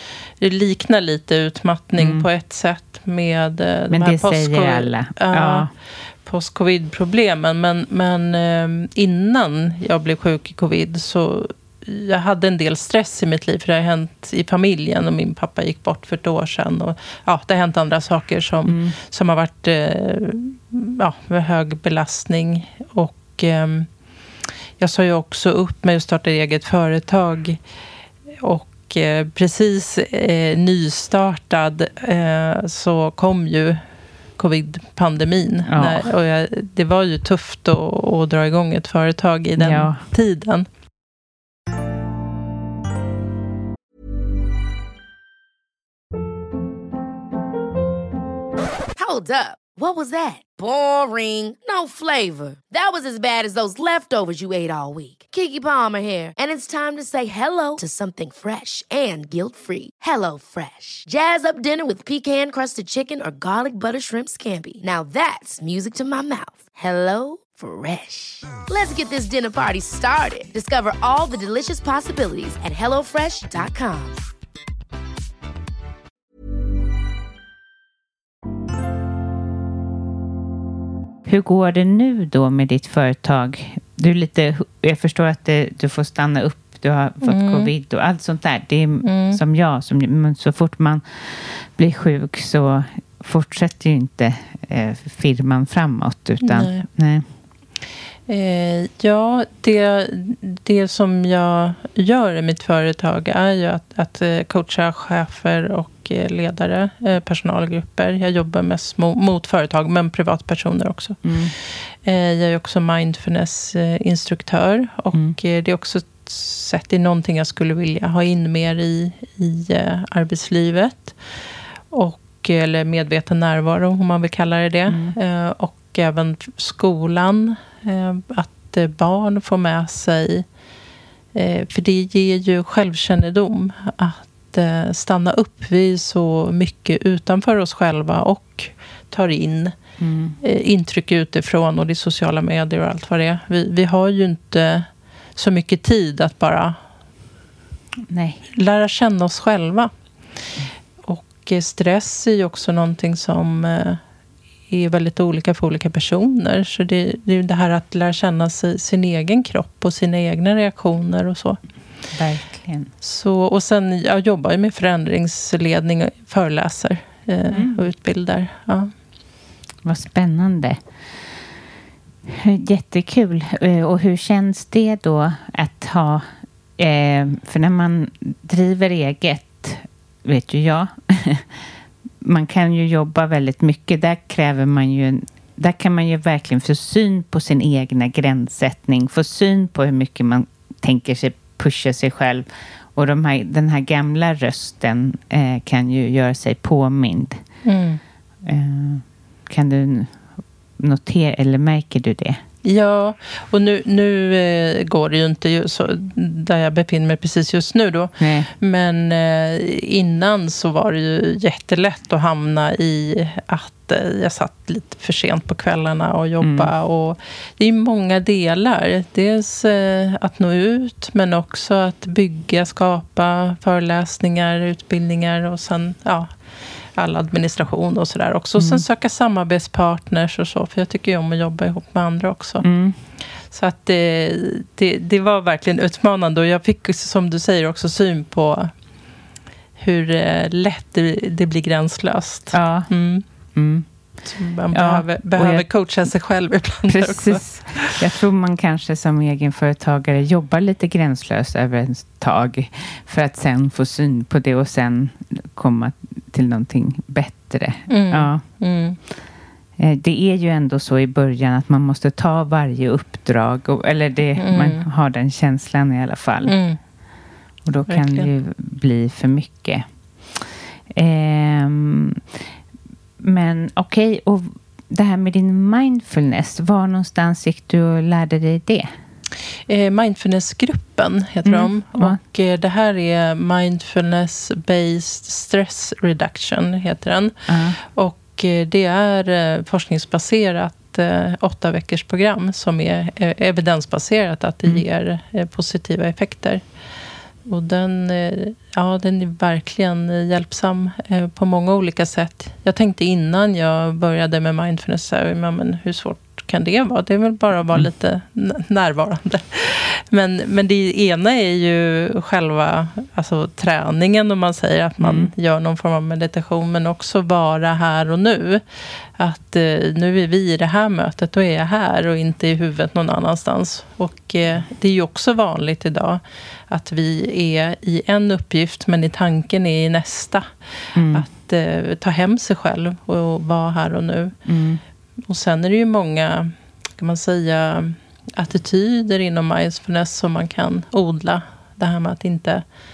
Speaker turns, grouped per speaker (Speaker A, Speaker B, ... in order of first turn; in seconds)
Speaker A: 0.4-5.7, 6.2-23.9, 24.8-27.6, 28.4-33.8, 34.4-40.7, 87.2-87.7, 89.0-89.4, 96.4-96.9, 98.3-111.3, 112.0-121.2, 121.9-130.4, 131.3-139.8, 140.4-146.8, 148.5-149.9, 151.0-154.0, 154.7-161.6, 163.0-168.9, 197.6-198.0, 202.6-226.3, 226.9-232.6, 233.5-238.7, 239.8-243.2, 244.2-248.0, 257.9-259.0, 264.4-264.9, 266.4-266.8, 267.9-268.3, 279.7-296.6, 297.4-318.6, 319.1-334.4, 335.3-342.6
Speaker B: 2.0-2.3, 3.9-5.7, 18.6-19.0, 35.7-36.1, 39.6-40.0, 81.2-97.2, 111.2-111.5, 124.9-125.1, 140.0-140.4, 148.1-148.4, 162.1-162.9, 167.5-167.8, 169.8-170.8, 172.3-181.5, 182.2-197.4, 198.4-200.2, 200.8-202.4, 208.2-208.5, 216.4-216.7, 228.6-228.8, 232.6-233.0, 242.5-242.9, 243.5-243.9, 244.7-245.6, 246.9-258.4, 259.8-266.5, 267.6-272.2, 273.2-278.9, 281.4-282.2, 287.5-287.8, 315.0-315.3, 330.9-331.2, 334.5-334.8
Speaker C: 49.0-74.2